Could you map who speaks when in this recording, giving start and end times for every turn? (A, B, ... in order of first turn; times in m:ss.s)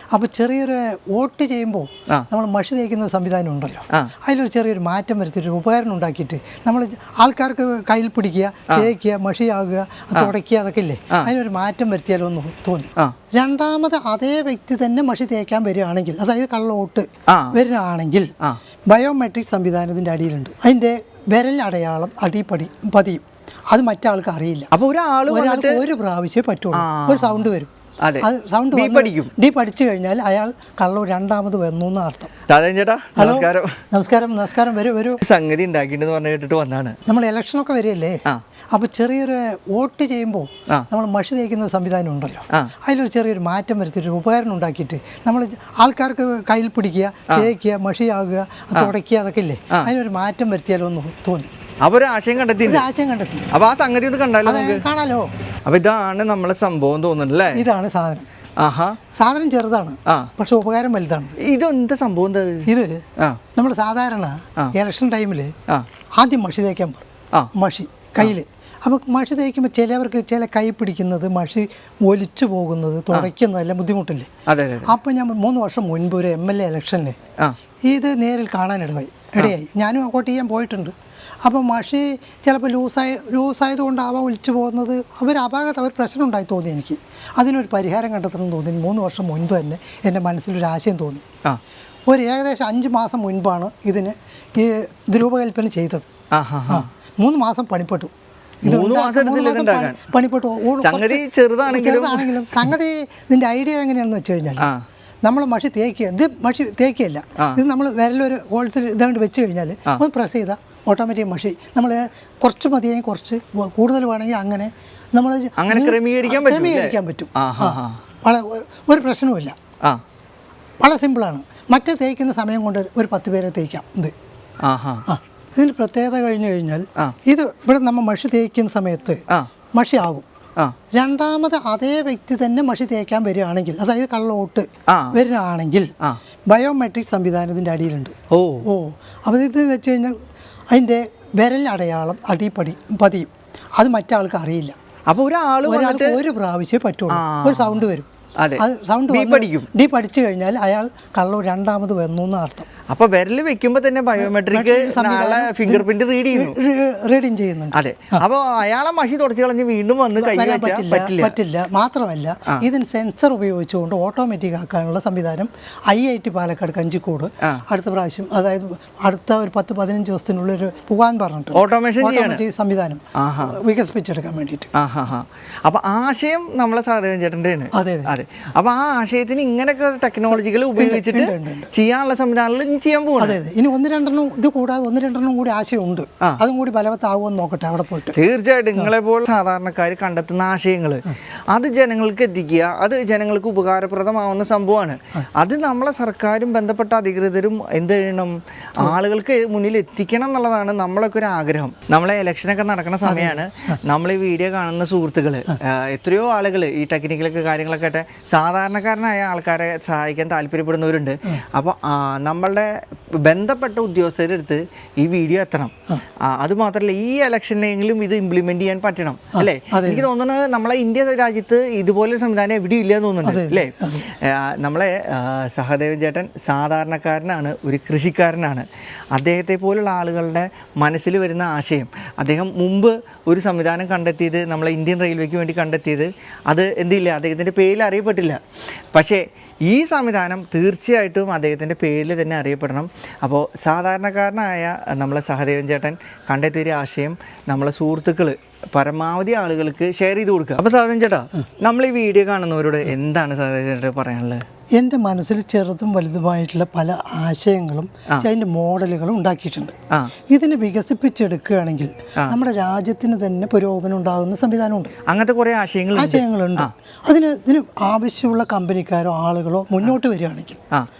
0:00.1-0:18.3 A
0:17.3-0:17.6 B
0:18.9-0:24.7 A
0:24.7-0:25.8 B
0:25.3-0:27.7 A
0:26.7-0:27.4 B
0:28.0-0:29.3 B
0:28.2-0:32.3 A
0:32.5-0:33.8 B
0:33.2-0:35.2 A
0:35.2-0:37.0 B
0:37.0-0:51.5 A
0:51.8-0:52.9 B
0:52.6-0:53.5 A
0:53.5-0:54.8 B
0:54.4-0:55.3 A
0:55.6-0:57.6 B
0:57.5-0:58.3 A
0:58.6-0:59.0 B
0:59.1-1:01.4 A
1:01.4-1:03.4 B
1:02.6-1:05.5 A
1:06.2-1:14.3 A
1:14.5-1:14.9 B
1:14.8-1:17.2 A
1:17.8-1:20.9 A
1:21.4-1:31.2 A
1:32.1-1:36.1 A
1:36.3-1:36.9 B
1:36.7-1:38.1 A
1:38.6-1:40.0 B
1:38.6-1:44.7 A
1:40.8-1:42.7 B
1:44.6-1:44.8 B
1:45.2-1:59.5 A
1:55.6-1:58.0 B
2:00.8-2:04.1 A
2:04.6-2:05.0 B
2:05.1-2:09.2 A
2:09.8-2:10.2 A
2:10.9-2:15.9 A
2:14.9-2:15.2 B
2:16.5-2:20.1 A
2:18.3-2:18.6 B
2:20.7-2:24.7 A
2:25.1-2:26.2 B
2:25.6-2:32.7 A
2:27.1-2:27.8 B
2:28.4-2:29.7 B
2:32.9-2:36.6 B
2:34.2-2:38.2 A
2:37.7-2:41.3 B
2:40.2-2:54.7 A
2:51.5-2:52.4 B
2:53.1-2:53.6 B
2:54.7-3:03.4 B
2:57.7-2:58.1 A
3:00.8-3:01.7 A
3:03.2-3:08.2 A
3:08.1-3:58.4 B
3:23.0-3:23.8 A
3:39.3-3:40.0 A
3:43.2-3:44.1 A
3:58.9-4:14.4 B
4:14.8-4:19.8 A
4:20.3-4:24.9 A
4:25.1-4:26.7 B
4:25.9-4:30.6 A